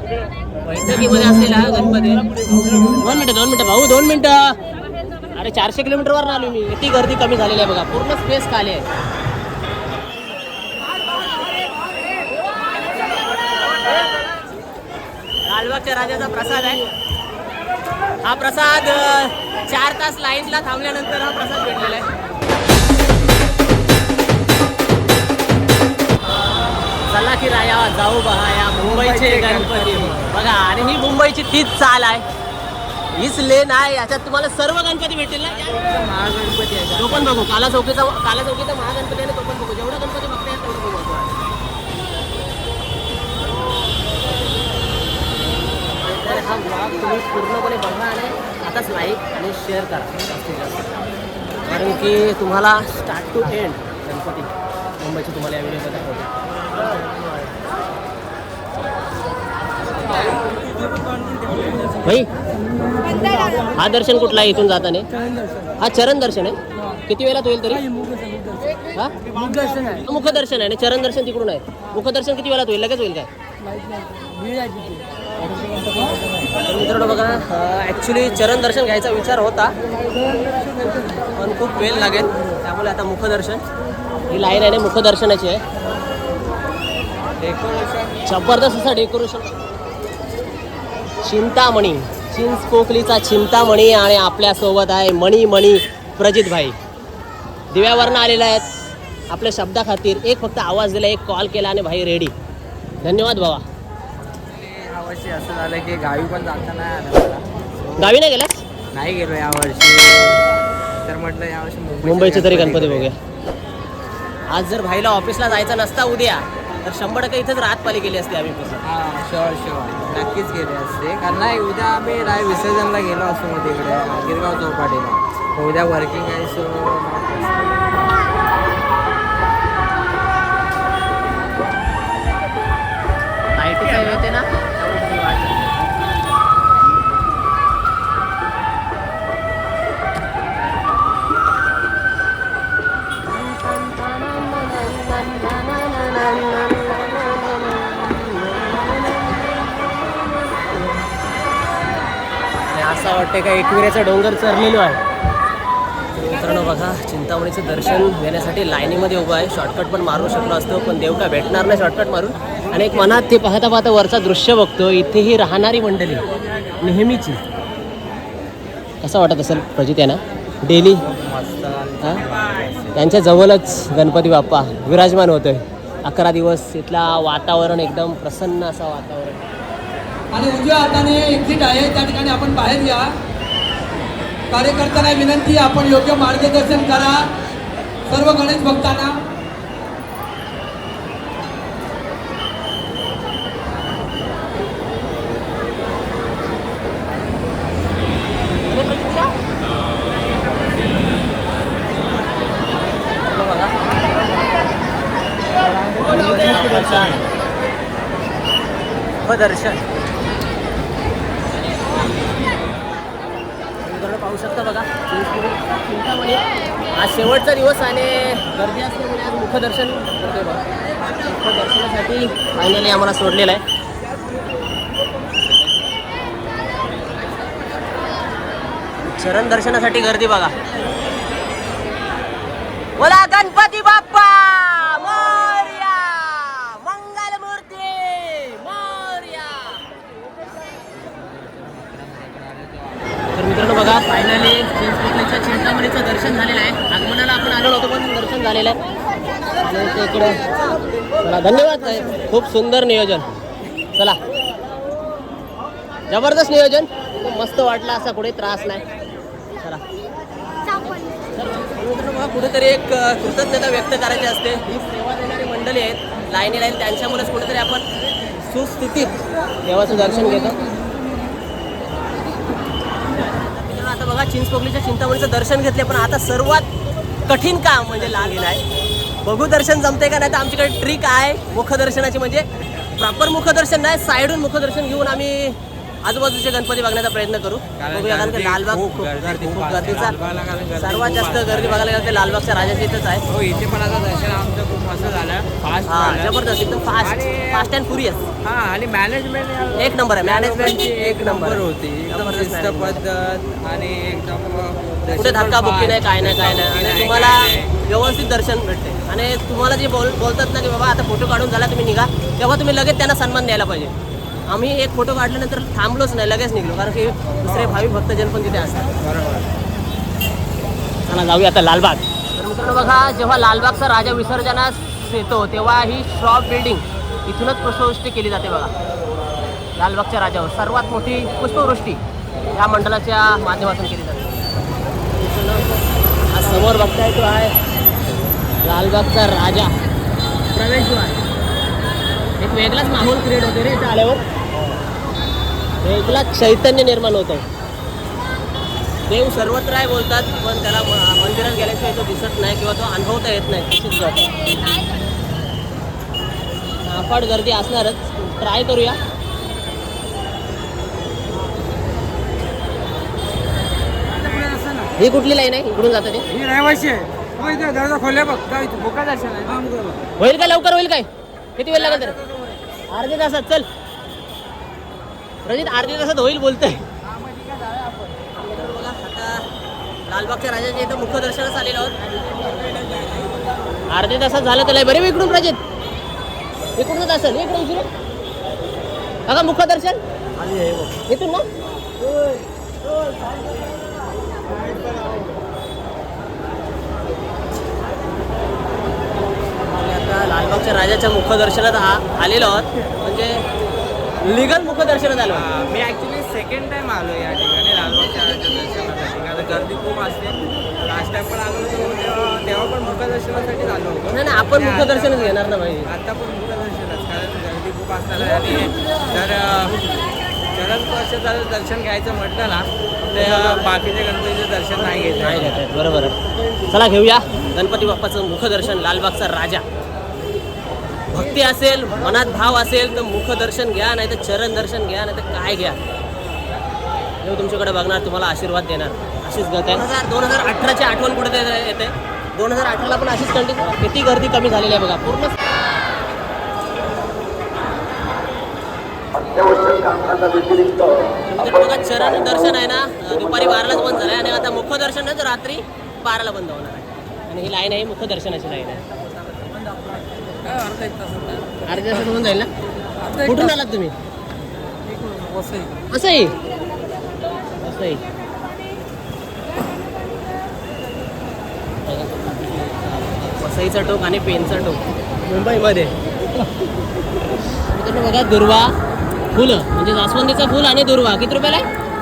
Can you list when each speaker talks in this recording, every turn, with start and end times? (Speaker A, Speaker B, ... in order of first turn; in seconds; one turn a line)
Speaker A: 0.6-2.3
Speaker A: 3.0-4.6
Speaker A: 5.3-8.8
Speaker A: 15.5-16.9
Speaker A: 18.2-22.1
Speaker A: 27.1-32.2
Speaker B: 28.8-30.3
Speaker A: 33.1-35.7
Speaker B: 35.6-37.4
Speaker A: 37.0-41.4
Speaker A: 46.0-50.9
Speaker A: 51.6-56.3
Speaker A: 63.5-65.1
Speaker A: 65.8-67.8
Speaker C: 68.0-68.6
Speaker C: 69.2-70.0
Speaker A: 70.0-73.3
Speaker C: 74.0-75.0
Speaker C: 75.8-76.1
Speaker A: 76.6-79.7
Speaker C: 80.1-81.2
Speaker A: 81.3-83.6
Speaker A: 84.3-85.6
Speaker B: 87.4-88.3
Speaker A: 88.2-89.5
Speaker A: 91.2-96.8
Speaker A: 97.7-98.7
Speaker A: 99.3-102.3
Speaker A: 103.0-103.6
Speaker B: 104.4-108.1
Speaker A: 108.0-108.6
Speaker B: 108.9-110.4
Speaker B: 111.0-113.1
Speaker A: 112.0-113.2
Speaker A: 114.5-118.8
Speaker B: 118.8-127.8
Speaker A: 133.6-135.7
Speaker A: 143.3-149.9
Speaker A: 152.7-155.0
Speaker A: 156.2-166.2
Speaker A: 166.8-167.4
Speaker A: 169.0-171.0
Speaker B: 171.0-172.9
Speaker A: 172.9-179.4
Speaker C: 180.3-183.1
Speaker C: 184.5-187.3
Speaker C: 188.1-189.2
Speaker A: 198.6-199.3
Speaker A: 203.3-203.8
Speaker A: 205.9-207.2
Speaker A: 209.2-209.8
Speaker A: 213.8-220.6
Speaker A: 221.2-223.6
Speaker A: 229.0-230.6
Speaker A: 233.0-239.8
Speaker B: 240.9-243.4
Speaker A: 243.3-248.8
Speaker A: 249.6-253.4
Speaker A: 256.1-258.8
Speaker A: 261.3-267.9
Speaker A: 268.4-270.6
Speaker A: 273.1-276.7
Speaker A: 277.3-278.6
Speaker A: 279.2-290.1
Speaker B: 287.8-291.9
Speaker A: 290.8-293.2
Speaker B: 293.3-296.4
Speaker A: 295.9-298.2
Speaker B: 297.0-297.7
Speaker B: 298.4-307.8
Speaker A: 299.8-303.0
Speaker A: 305.1-313.9
Speaker A: 314.5-318.9
Speaker B: 317.4-317.8
Speaker B: 319.0-319.5
Speaker A: 321.1-328.7
Speaker A: 329.8-332.0
Speaker A: 332.5-334.4
Speaker A: 335.1-335.7
Speaker A: 336.3-337.5
Speaker A: 338.6-339.7
Speaker A: 340.5-341.2
Speaker A: 342.4-344.2
Speaker A: 345.8-347.4
Speaker A: 349.1-354.4
Speaker A: 356.8-359.0
Speaker B: 364.1-364.9
Speaker A: 365.0-366.2
Speaker B: 366.3-370.1
Speaker A: 370.2-372.2
Speaker B: 371.7-372.6
Speaker A: 372.9-373.7
Speaker A: 375.4-376.8
Speaker B: 377.1-378.2
Speaker A: 378.5-379.5
Speaker A: 380.1-382.0
Speaker B: 382.2-383.4
Speaker A: 383.9-385.6
Speaker A: 386.8-387.9
Speaker A: 389.3-391.4
Speaker A: 399.7-403.4
Speaker A: 404.2-405.4
Speaker B: 405.3-419.8
Speaker A: 414.0-415.9
Speaker B: 420.5-425.6
Speaker A: 425.2-426.1
Speaker A: 426.7-429.6
Speaker A: 431.1-435.8
Speaker A: 437.2-445.4
Speaker A: 451.3-458.8
Speaker B: 460.4-461.4
Speaker A: 461.6-462.5
Speaker A: 463.2-463.9
Speaker B: 464.9-465.8
Speaker A: 465.9-466.3
Speaker A: 467.6-468.0
Speaker A: 471.9-472.3
Speaker A: 473.4-475.9
Speaker A: 477.5-478.7
Speaker A: 479.3-481.6